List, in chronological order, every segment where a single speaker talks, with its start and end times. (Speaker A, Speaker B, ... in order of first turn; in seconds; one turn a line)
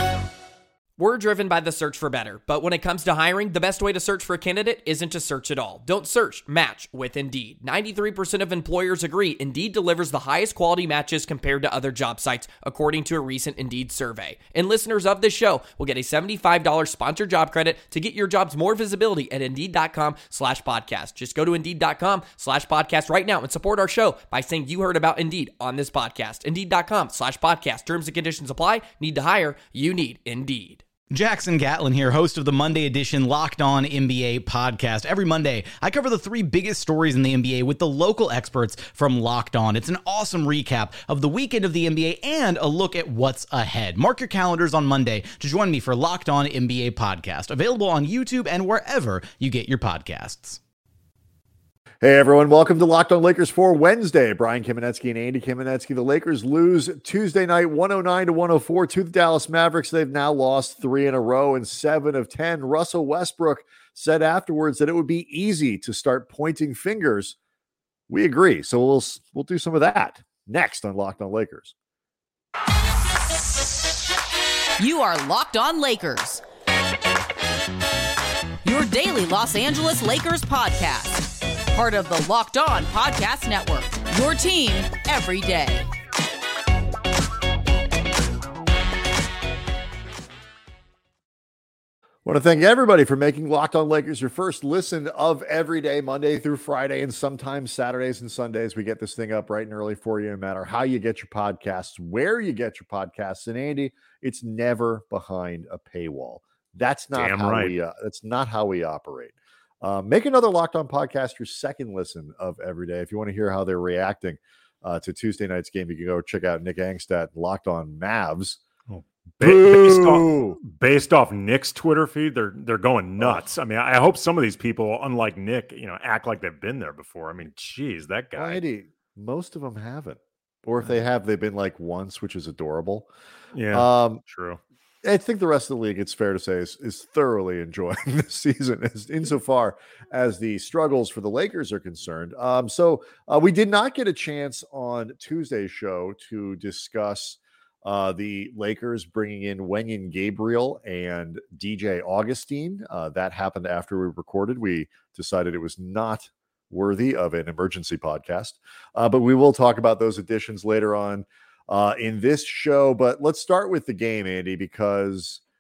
Speaker A: 1.0-30.8
Speaker B: 31.1-50.6
Speaker C: 52.0-67.4
Speaker C: 68.1-71.7
Speaker D: 74.8-76.4
Speaker D: 78.7-85.9
Speaker C: 92.2-118.6
Speaker E: 107.2-107.7
Speaker E: 118.9-128.6
Speaker C: 119.4-120.6
Speaker C: 123.2-123.5
Speaker C: 128.4-133.1
Speaker E: 133.5-134.6
Speaker C: 133.7-134.2
Speaker C: 135.0-165.4